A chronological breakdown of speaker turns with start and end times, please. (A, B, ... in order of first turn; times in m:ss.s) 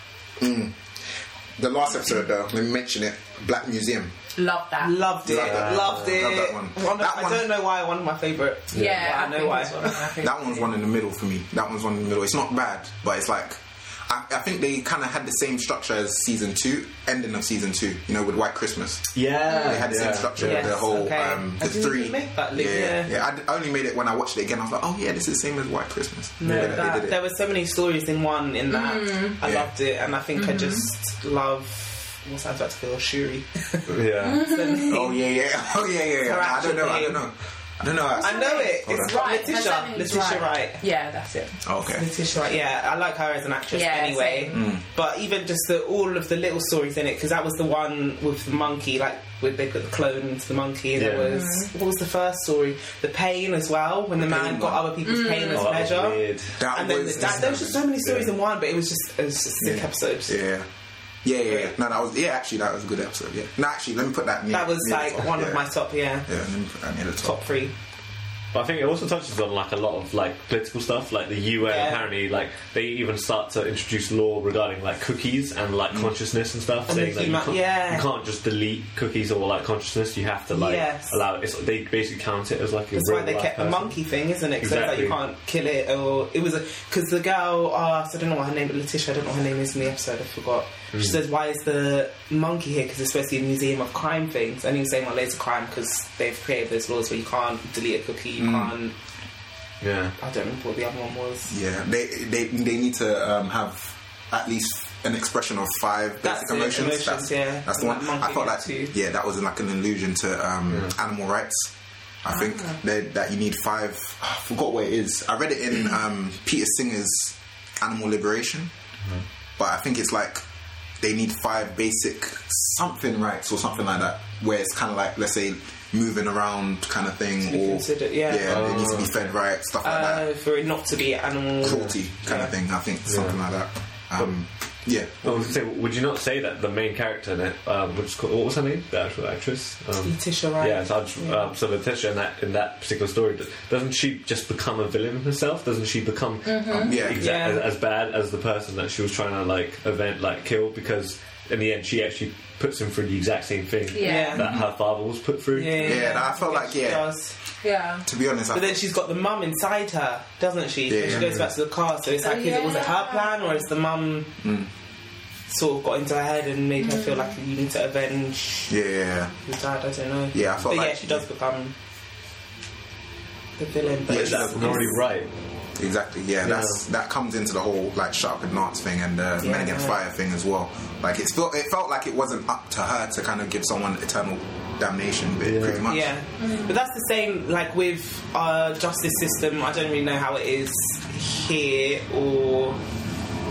0:00.4-0:00.8 A
0:01.6-0:04.1 A
0:04.4-0:05.0 B
0:04.8-0:10.1 C
0:05.2-0:07.5 A
0:05.3-0:06.2 D
0:08.7-0:09.0 D
0:08.7-0:10.7 B
0:10.2-0:27.2 A
0:19.1-0:20.7 D
0:19.5-0:19.9 B
0:20.4-0:23.1 C
0:26.4-0:35.2 C
0:26.4-0:26.8 D
0:28.7-0:29.4 B
0:29.4-0:29.7 A
0:30.4-0:30.8 B
0:33.9-0:34.5 D
0:34.2-0:35.0 B
0:34.9-0:39.3 A
0:36.2-0:37.2 C
0:38.2-0:41.6 B
0:38.2-0:40.8 C
0:41.6-0:42.1 A
0:41.9-1:00.4 C
0:43.7-0:44.6 B
0:44.5-0:44.8 A
0:51.0-0:51.4 D
0:51.3-0:51.7 B
0:54.2-0:54.9 A
0:55.0-0:55.7 B
0:55.5-0:56.6 D
0:56.6-0:57.8 A
0:59.6-1:00.7 A
1:01.2-1:05.6 A
1:01.4-1:01.7 C
1:04.5-1:06.3 C
1:06.3-1:07.4 A
1:07.2-1:07.7 C
1:08.5-1:24.0 D
1:11.6-1:12.1 C
1:16.9-1:18.1 C
1:20.5-1:21.2 C
1:22.9-1:38.9 C
1:24.6-1:25.2 D
1:30.9-1:31.2 D
1:38.4-1:38.7 A
1:39.8-1:40.2 D
1:40.2-1:41.5 C
1:41.5-1:51.7 A
1:46.2-1:48.9 C
1:52.2-1:58.7 A
1:52.3-1:52.8 C
1:59.6-2:00.4 A
2:01.0-2:10.2 A
2:07.4-2:08.8 C
2:08.4-2:09.3 D
2:09.8-2:12.5 C
2:11.6-2:15.6 A
2:13.1-2:13.4 D
2:15.2-2:36.0 D
2:20.0-2:21.5 C
2:26.4-2:27.0 B
2:26.7-2:27.2 A
2:27.2-2:27.6 C
2:33.9-2:34.4 B
2:34.0-2:34.4 C
2:34.4-2:34.7 A
2:35.6-2:37.4 C
2:35.8-2:37.1 A
2:37.6-2:38.1 B
2:38.0-2:38.8 A
2:38.5-2:44.3 C
2:40.9-2:41.5 A
2:41.1-2:41.4 D
2:42.2-2:43.5 B
2:44.4-2:44.7 A
2:45.5-2:48.7 C
2:46.8-2:47.3 B
2:48.7-2:49.4 A
2:49.4-2:51.8 C
2:50.3-2:51.3 A
2:53.6-2:55.0 C
2:54.1-2:55.0 A
2:54.1-2:55.3 D
2:55.8-3:06.1 A
2:56.4-2:56.8 D
2:59.4-3:00.0 C
3:05.4-3:05.9 D
3:05.8-3:12.8 C
3:06.4-3:06.7 B